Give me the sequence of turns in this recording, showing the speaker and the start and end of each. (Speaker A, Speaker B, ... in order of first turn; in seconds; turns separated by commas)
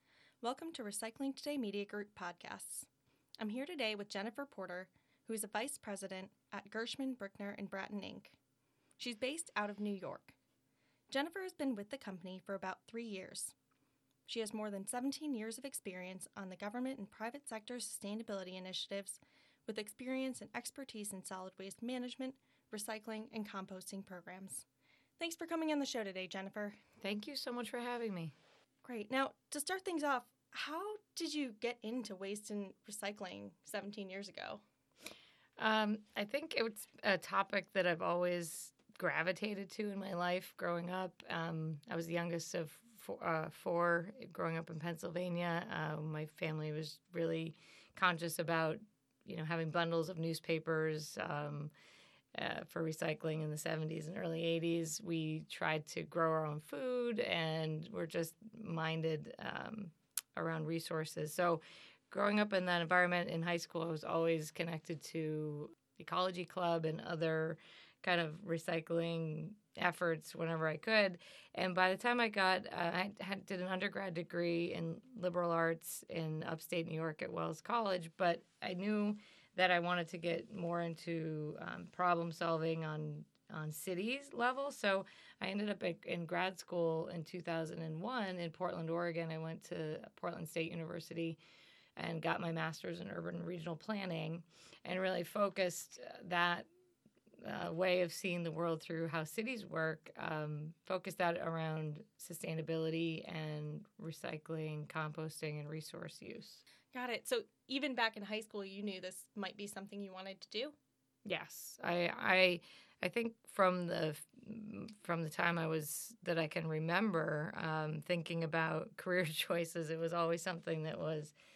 Speaker A: 0.4-2.9, Speaker A: 3.4-8.4, Speaker A: 9.0-10.3, Speaker A: 11.1-13.5, Speaker A: 14.3-24.6, Speaker A: 25.2-26.8, Speaker B: 27.0-28.3, Speaker A: 28.8-34.6, Speaker B: 35.6-51.7, Speaker B: 52.3-91.4, Speaker B: 92.0-96.7, Speaker B: 97.4-106.6, Speaker A: 106.9-110.8, Speaker B: 111.2-121.3